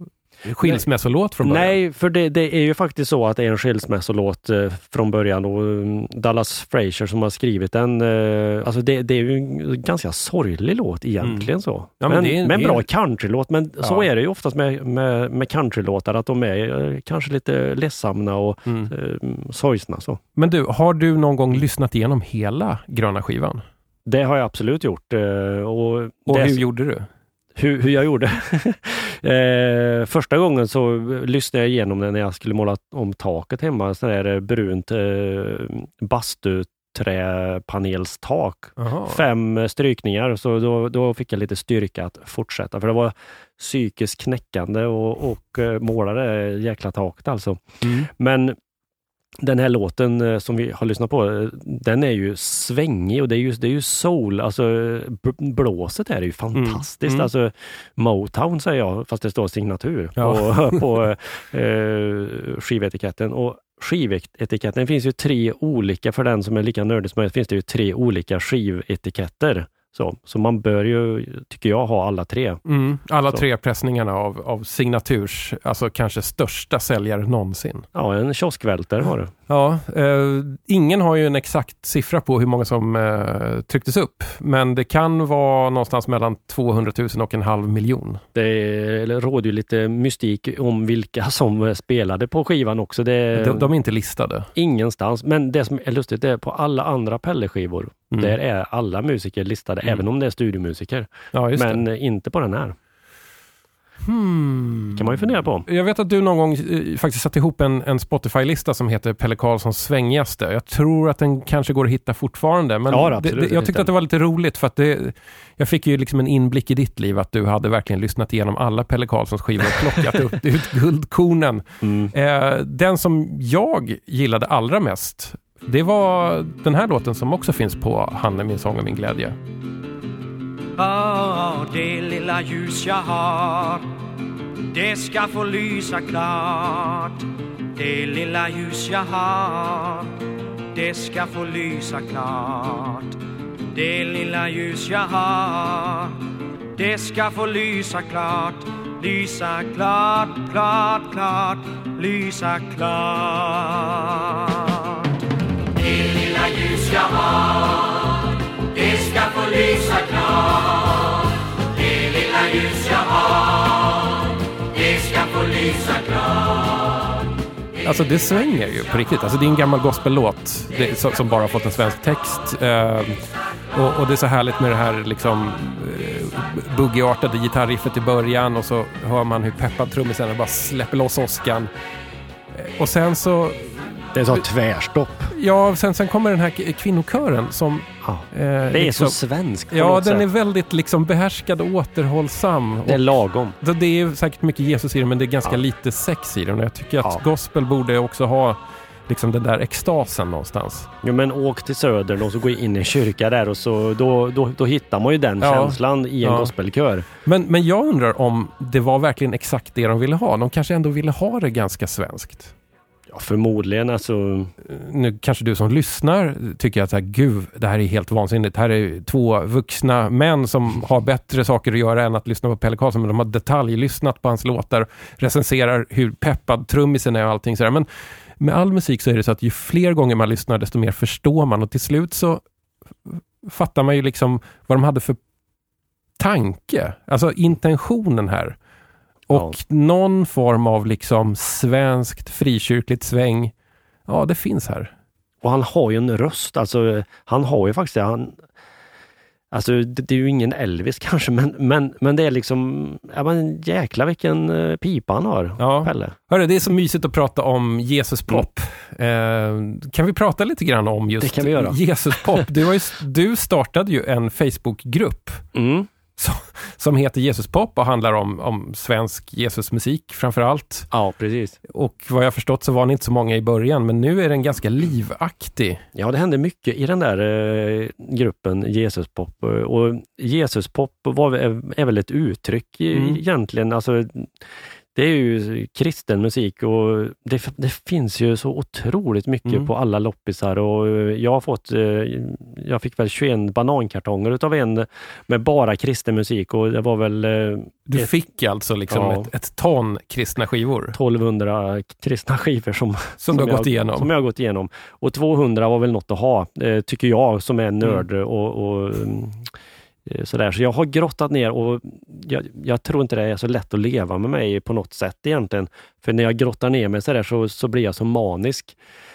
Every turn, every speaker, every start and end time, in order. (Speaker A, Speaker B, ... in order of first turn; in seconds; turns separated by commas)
Speaker A: 0.4-1.8, Speaker B: 1.4-20.2, Speaker A: 11.2-11.5, Speaker A: 12.0-12.8, Speaker A: 13.8-14.1, Speaker A: 18.6-18.9, Speaker A: 20.4-23.6, Speaker B: 24.1-26.6, Speaker A: 26.3-27.1, Speaker B: 27.6-48.5, Speaker A: 38.8-39.2, Speaker A: 47.8-48.1, Speaker B: 49.4-72.6, Speaker A: 56.5-57.3, Speaker A: 60.2-61.0, Speaker A: 72.7-77.9, Speaker B: 77.9-79.3, Speaker A: 79.5-88.2, Speaker B: 88.3-93.7, Speaker A: 93.3-94.5, Speaker B: 94.5-102.8, Speaker A: 101.3-101.8, Speaker A: 104.0-129.4, Speaker B: 105.0-105.7, Speaker B: 112.9-113.9, Speaker B: 121.8-122.1, Speaker C: 130.8-133.8, Speaker C: 134.7-140.1, Speaker C: 140.7-143.2, Speaker C: 143.7-146.2, Speaker C: 146.7-154.9, Speaker C: 155.9-157.8, Speaker C: 158.7-160.7, Speaker C: 162.0-163.4, Speaker C: 164.8-166.2, Speaker A: 167.8-173.2, Speaker A: 173.7-181.7, Speaker A: 182.5-184.4, Speaker B: 184.1-185.3, Speaker A: 185.3-189.2, Speaker B: 188.0-190.3, Speaker A: 189.7-193.0, Speaker B: 192.8-193.6, Speaker A: 193.6-200.9, Speaker B: 201.0-207.1, Speaker A: 205.4-206.5, Speaker A: 207.2-212.5, Speaker B: 213.1-214.5, Speaker A: 214.6-227.9, Speaker A: 228.4-232.4, Speaker A: 233.0-235.2, Speaker A: 236.2-238.6, Speaker A: 239.3-243.5, Speaker B: 239.3-239.6, Speaker A: 244.1-244.9, Speaker B: 245.4-248.4, Speaker B: 249.5-256.1, Speaker A: 255.6-265.4, Speaker B: 261.2-262.4, Speaker B: 265.5-265.9, Speaker A: 266.2-270.9, Speaker B: 270.9-271.6, Speaker A: 271.7-275.8, Speaker B: 275.9-284.3, Speaker A: 282.9-283.2, Speaker B: 284.9-298.1, Speaker A: 289.4-289.7, Speaker A: 297.9-300.9, Speaker B: 298.9-299.3, Speaker B: 300.9-309.5, Speaker A: 303.2-304.1, Speaker B: 310.1-318.7